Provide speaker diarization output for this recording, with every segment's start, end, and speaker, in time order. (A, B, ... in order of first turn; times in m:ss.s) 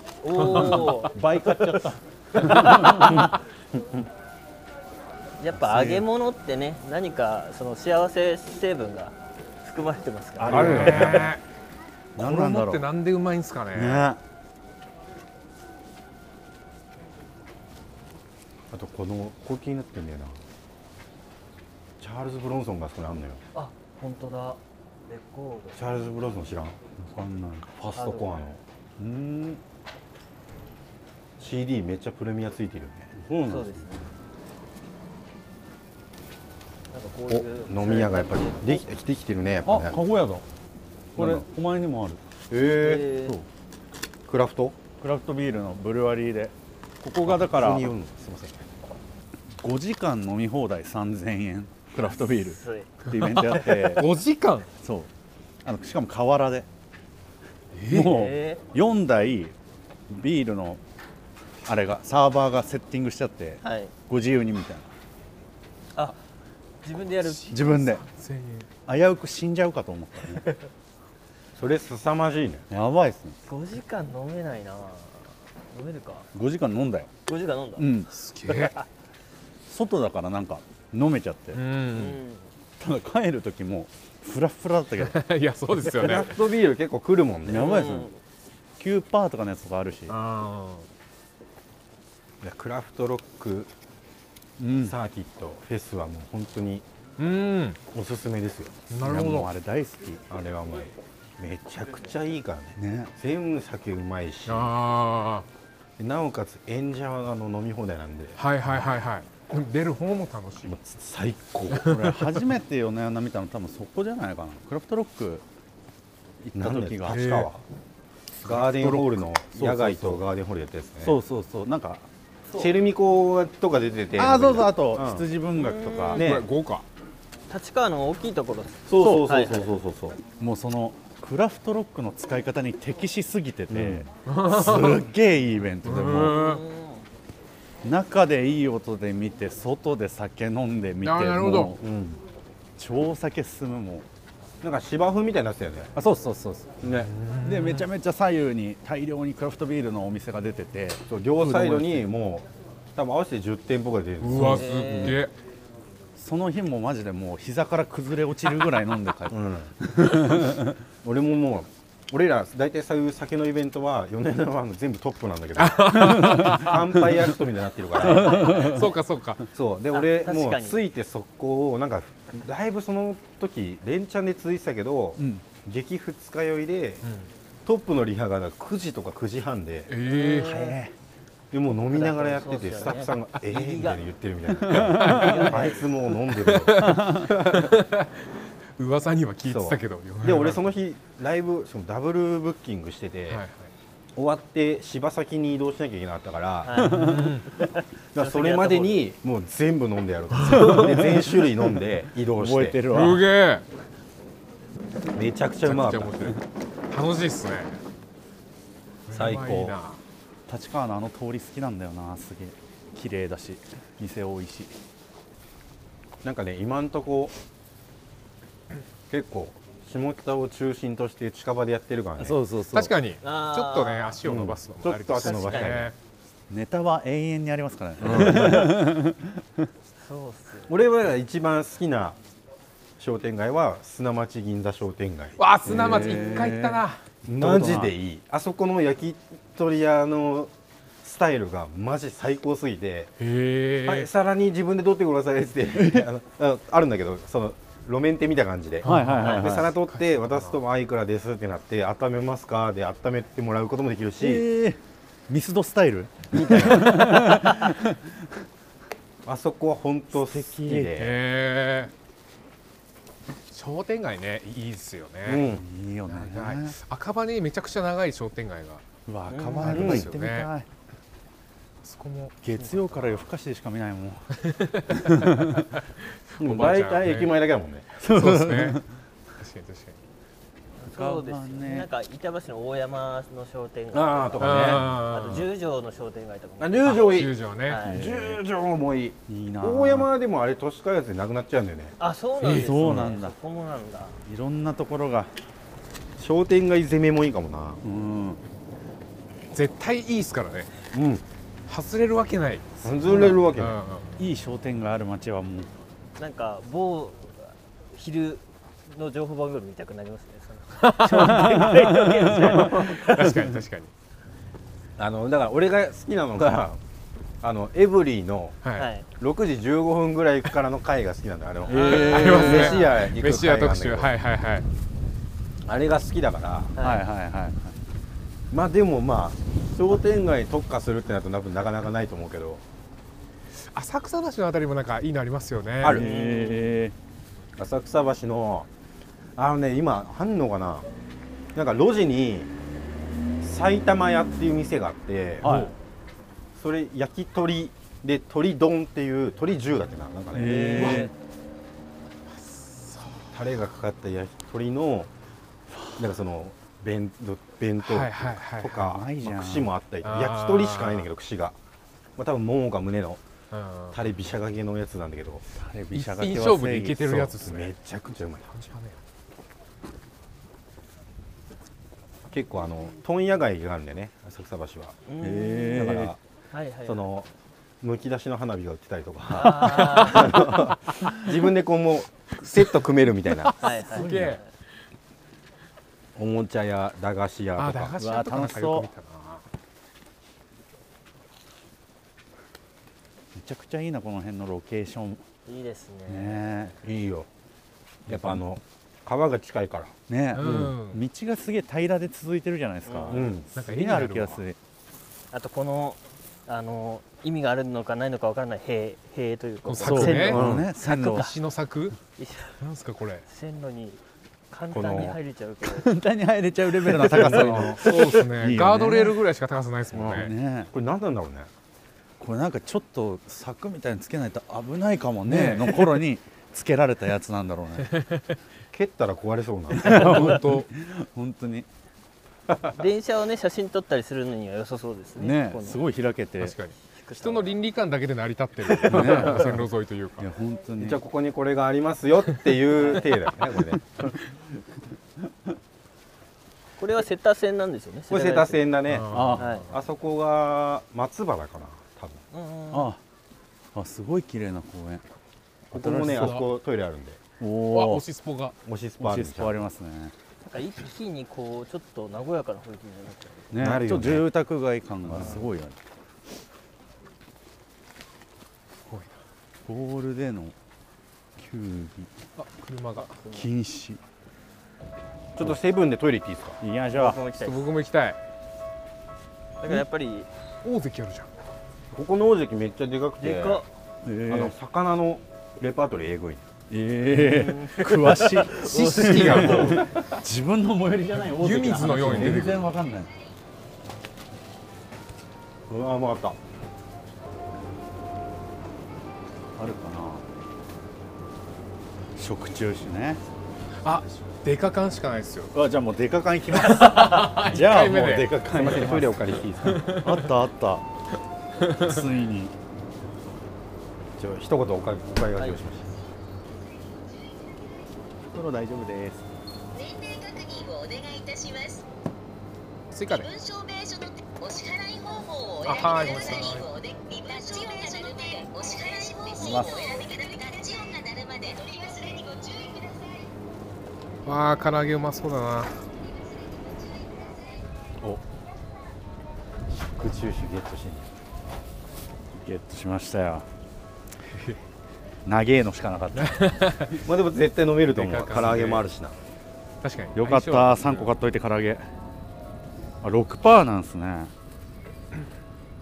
0:00.2-0:03.3 A
0:00.4-0:00.9 B
0:00.5-0:03.3 C
0:05.4-0:11.0 A
0:05.5-0:06.0 C
0:10.4-0:11.4 C
0:10.5-0:11.3 D
0:10.5-0:11.4 B
0:12.2-0:12.8 C
0:12.2-0:14.1 B
0:13.7-0:14.2 C
0:18.7-0:20.4 D
0:22.0-0:23.4 D
0:23.5-0:26.2 A
0:25.8-0:26.8 D
0:27.0-0:28.1 C
0:27.9-0:28.6 D
0:27.9-0:28.4 A
0:29.0-0:29.6 C
0:31.4-0:33.3 D
0:33.3-0:33.7 C
0:33.4-0:34.1 A
0:36.9-0:38.8 A
0:37.3-0:40.0 D
0:39.6-0:40.4 C
0:41.1-0:42.2 C
0:41.2-0:41.4 D
0:42.5-0:43.1 D
0:42.6-0:43.4 A
0:44.3-0:44.8 D
0:45.0-0:47.9 C
0:47.2-0:48.7 D
0:49.6-0:54.1 C
0:52.0-0:52.9 A
0:53.0-0:54.7 B
0:54.8-0:55.1 C
0:55.6-0:56.7 C
0:57.7-0:58.2 B
0:57.9-0:59.5 C
0:58.0-0:58.6 A
1:00.1-1:00.8 C
1:01.6-1:04.9 C
1:03.6-1:03.9 A
1:06.8-1:07.7 A
1:07.2-1:08.7 B
1:07.5-1:08.0 C
1:08.9-1:10.4 C
1:11.6-1:12.6 D
1:12.7-1:13.4 C
1:13.5-1:16.3 A
1:16.3-1:17.1 C
1:17.2-1:17.9 A
1:17.8-1:18.1 C
1:18.1-1:18.7 B
1:18.5-1:18.8 A
1:19.7-1:21.6 C
1:21.5-1:22.2 B
1:21.9-1:22.5 A
1:22.8-1:25.2 C
1:25.0-1:26.4 B
1:25.9-1:27.7 D
1:27.4-1:28.1 C
1:27.5-1:28.2 A
1:28.8-1:30.2 C
1:30.1-1:30.9 B
1:32.4-1:33.7 D
1:34.6-1:34.9 C
1:34.8-1:36.8 D
1:37.2-1:37.8 B
1:37.9-1:38.8 D
1:38.9-1:39.5 B
1:39.0-1:40.2 C
1:40.3-1:44.7 D
1:42.8-1:43.1 C
1:44.5-1:45.4 B
1:46.0-1:48.4 D
1:48.4-1:50.7 B
1:50.6-1:51.9 D
1:51.8-1:52.4 B
1:51.8-1:55.4 C
1:56.4-1:57.2 C
1:56.5-1:57.6 D
1:57.1-1:57.5 B
1:58.4-2:00.2 C
1:58.4-2:01.2 D
2:01.0-2:02.0 C
2:02.5-2:05.2 D
2:04.2-2:06.3 C
2:05.6-2:06.2 A
2:06.1-2:06.4 D
2:06.1-2:06.8 B
2:07.5-2:09.7 A
2:08.8-2:10.2 D
2:09.0-2:09.3 C
2:10.4-2:16.4 C
2:13.7-2:14.0 D
2:14.2-2:15.1 B
2:15.8-2:16.6 B
2:16.2-2:17.0 A
2:17.8-2:21.8 C
2:21.0-2:21.7 B
2:21.8-2:22.2 D
2:22.8-2:24.0 C
2:24.6-2:25.9 D
2:25.9-2:26.8 C
2:26.8-2:27.1 D
2:27.0-2:27.9 B
2:27.4-2:32.1 C
2:31.1-2:34.7 D
2:34.2-2:35.3 B
2:34.3-2:35.2 C
2:34.5-2:35.2 A
2:36.1-2:40.8 C
2:39.3-2:39.7 D
2:41.0-2:48.7 D
2:45.6-2:47.1 B
2:45.9-2:47.3 C
2:47.9-2:48.9 C
2:48.0-2:49.0 A
2:48.3-2:49.4 B
2:49.5-2:57.0 D
2:49.9-2:50.8 A
2:55.2-2:55.4 C
2:57.0-2:57.3 B
2:57.6-2:59.9 D
2:59.9-3:00.6 B
3:00.0-3:00.8 A
3:00.2-3:00.9 C
3:01.5-3:07.8 D
3:01.9-3:04.1 A
3:04.6-3:05.5 C
3:04.7-3:05.7 B
3:05.0-3:06.0 A
3:06.3-3:10.6 B
3:09.5-3:13.4 D
3:13.3-3:13.7 B
3:14.2-3:16.8 D
3:16.6-3:19.0 A
3:16.8-3:17.5 B
3:17.0-3:17.3 C
3:18.1-3:22.8 D
3:20.3-3:21.0 B
3:20.4-3:21.4 C
3:22.3-3:23.3 C
3:22.9-3:23.6 B
3:25.1-3:26.4 D
3:25.6-3:27.8 B
3:29.1-3:30.0 B
3:29.1-3:29.8 D
3:30.5-3:34.7 C
3:36.2-3:37.3 D
3:39.1-3:42.4 D
3:42.2-3:42.9 C
3:42.7-3:45.9 B
3:43.2-3:44.2 A
3:44.2-3:45.9 D
3:45.2-3:45.8 A
3:46.5-3:49.7 C
3:48.0-3:48.8 D
3:50.0-3:50.7 A
3:50.7-3:52.2 D
3:53.0-3:56.2 D
3:55.4-3:57.0 B
3:55.6-3:57.9 C
3:57.2-4:03.1 D
4:03.2-4:04.1 B
4:03.8-4:14.4 D
4:05.7-4:06.1 C
4:08.8-4:10.6 B
4:08.8-4:09.7 C
4:14.2-4:18.2 C
4:16.3-4:17.0 D
4:16.7-4:17.6 A
4:19.2-4:21.2 D
4:20.2-4:21.0 C
4:20.9-4:21.9 B
4:23.5-4:25.5 B
4:25.2-4:25.6 D
4:25.5-4:26.7 C
4:26.1-4:28.8 B
4:29.0-4:30.7 C
4:29.3-4:29.8 A
4:29.6-4:30.5 B
4:29.6-4:30.1 D
4:31.8-4:33.2 B
4:32.4-4:34.3 C
4:34.4-4:37.4 B
4:34.9-4:35.7 C
4:36.4-4:38.0 D
4:38.0-4:38.8 C
4:38.0-4:38.8 B
4:39.4-4:40.0 B
4:40.8-4:48.0 A
4:41.0-4:41.9 C
4:43.9-4:44.9 D
4:44.4-4:45.5 B
4:46.6-4:47.3 D
4:46.8-4:47.8 B
4:47.8-4:48.4 C
4:47.8-4:51.9 D
4:49.3-4:50.1 C
4:52.0-4:54.2 A
4:52.4-4:53.0 B
4:52.5-4:53.3 C
4:54.2-4:55.3 C
4:56.2-4:57.8 D
4:57.8-4:58.4 C
4:59.5-5:00.7 B
5:00.9-5:01.2 D
5:01.7-5:04.1 B
5:02.8-5:03.8 D
5:03.1-5:03.4 C
5:04.2-5:05.7 C
5:06.2-5:13.4 A
5:10.8-5:13.9 B
5:11.1-5:12.7 C
5:15.0-5:16.8 D
5:17.4-5:18.6 D
5:18.6-5:18.9 B
5:18.8-5:19.1 A
5:19.2-5:24.1 D
5:21.7-5:22.8 C
5:21.7-5:23.0 A
5:21.7-5:24.6 B
5:25.6-5:26.8 D
5:26.8-5:27.0 A
5:26.8-5:27.8 C
5:28.5-5:32.6 D
5:33.6-5:36.0 B
5:35.8-5:36.1 D
5:35.8-5:36.9 C
5:35.9-5:36.7 A
5:37.6-5:38.7 D
5:39.4-5:40.8 D
5:41.5-5:42.5 D
5:43.4-5:45.6 D
5:45.4-5:45.7 C
5:45.4-5:45.7 B
5:46.5-5:51.1 D
5:50.3-5:51.1 C
5:52.3-5:53.3 B
5:53.3-5:55.1 D
5:55.7-5:56.1 C
5:56.0-6:01.6 D
5:57.8-5:58.8 B
5:58.7-5:59.7 C
6:00.0-6:01.1 B
6:02.2-6:03.2 D
6:03.5-6:04.0 B
6:03.9-6:05.4 D
6:05.6-6:07.4 C
6:05.9-6:07.8 B
6:07.4-6:08.5 D
6:08.5-6:09.0 B
6:12.3-6:15.0 D
6:15.1-6:17.0 A
6:15.2-6:16.1 C
6:15.7-6:16.2 D
6:16.8-6:17.3 D
6:17.8-6:23.6 D
6:19.3-6:20.5 A
6:23.4-6:24.4 B
6:23.6-6:24.4 A
6:23.8-6:24.4 C
6:26.1-6:27.9 D
6:27.6-6:29.4 B
6:28.0-6:28.9 C
6:33.3-6:35.2 C
6:35.4-6:36.7 A
6:36.1-6:36.8 C
6:36.8-6:37.3 D
6:38.1-6:38.4 C
6:38.1-6:39.9 D
6:40.1-6:44.6 C
6:40.3-6:41.0 B
6:42.8-6:43.3 A
6:43.1-6:43.5 D
6:43.5-6:44.4 B
6:45.3-6:50.4 A
6:49.6-6:52.0 B
6:49.8-6:51.3 C
6:50.3-6:50.7 D
6:51.0-6:51.3 A
6:52.2-6:52.6 A
6:52.6-6:53.2 B
6:53.3-6:55.9 A
6:54.7-6:55.2 D
6:55.6-6:59.2 C
6:56.8-6:57.8 D
6:57.1-7:00.3 B
6:59.9-7:00.7 C
6:59.9-7:01.5 D
7:02.2-7:07.9 C
7:05.3-7:05.9 B
7:07.8-7:08.4 B
7:08.7-7:10.4 D
7:09.7-7:10.7 B
7:09.8-7:11.7 C
7:12.7-7:15.8 A
7:15.2-7:16.5 C
7:16.4-7:20.2 B
7:16.9-7:17.6 A
7:18.8-7:21.0 C
7:20.8-7:24.1 D
7:22.8-7:23.2 A
7:26.8-7:28.6 A
7:28.1-7:32.2 D
7:28.9-7:29.6 B
7:29.1-7:29.6 C
7:29.4-7:29.7 A
7:32.3-7:32.9 A
7:32.7-7:33.0 C
7:33.7-7:35.0 C
7:35.7-7:37.2 D
7:35.7-7:36.4 C
7:35.9-7:36.5 B
7:37.4-7:38.0 C
7:37.7-7:38.5 B
7:38.6-7:39.6 D
7:39.0-7:40.1 C
7:40.4-7:43.5 A
7:43.5-7:45.8 C
7:43.6-7:44.3 D
7:45.0-7:45.4 D
7:48.8-7:49.2 B
7:49.6-7:50.5 C
7:51.4-7:52.1 C
7:52.4-7:53.2 B
7:53.0-7:53.5 A
7:53.3-7:54.0 C
7:55.3-7:56.6 D
7:56.6-7:57.2 C
7:56.9-7:57.7 A
7:57.4-7:58.2 B
7:59.6-8:00.3 A
8:00.6-8:01.3 B
8:01.9-8:03.6 D
8:03.2-8:03.7 A
8:04.0-8:04.5 C
8:04.3-8:06.4 D
8:06.7-8:13.1 C
8:07.1-8:09.6 A
8:08.5-8:10.1 B
8:11.4-8:12.7 B
8:12.0-8:12.4 D
8:15.7-8:16.4 D
8:19.6-8:20.2 C
8:22.2-8:23.2 C
8:23.8-8:25.5 B
8:25.5-8:30.8 C
8:26.5-8:29.0 B
8:28.5-8:29.9 D
8:29.6-8:30.3 B
8:31.6-8:32.5 C
8:34.2-8:35.9 D
8:35.4-8:35.7 A
8:38.3-8:39.3 C
8:39.7-8:41.8 E
8:42.9-8:43.3 B
8:43.1-8:53.3 E
8:45.6-8:46.7 B
8:49.4-8:50.1 C
8:54.2-8:55.8 B
8:56.0-8:57.6 E
8:59.9-9:01.1 D
9:02.3-9:03.5 C
9:04.3-9:04.6 B
9:05.2-9:06.3 C
9:06.1-9:07.0 B
9:07.0-9:09.2 D
9:07.9-9:08.8 B
9:09.8-9:11.1 B
9:10.1-9:11.8 C
9:13.0-9:14.3 C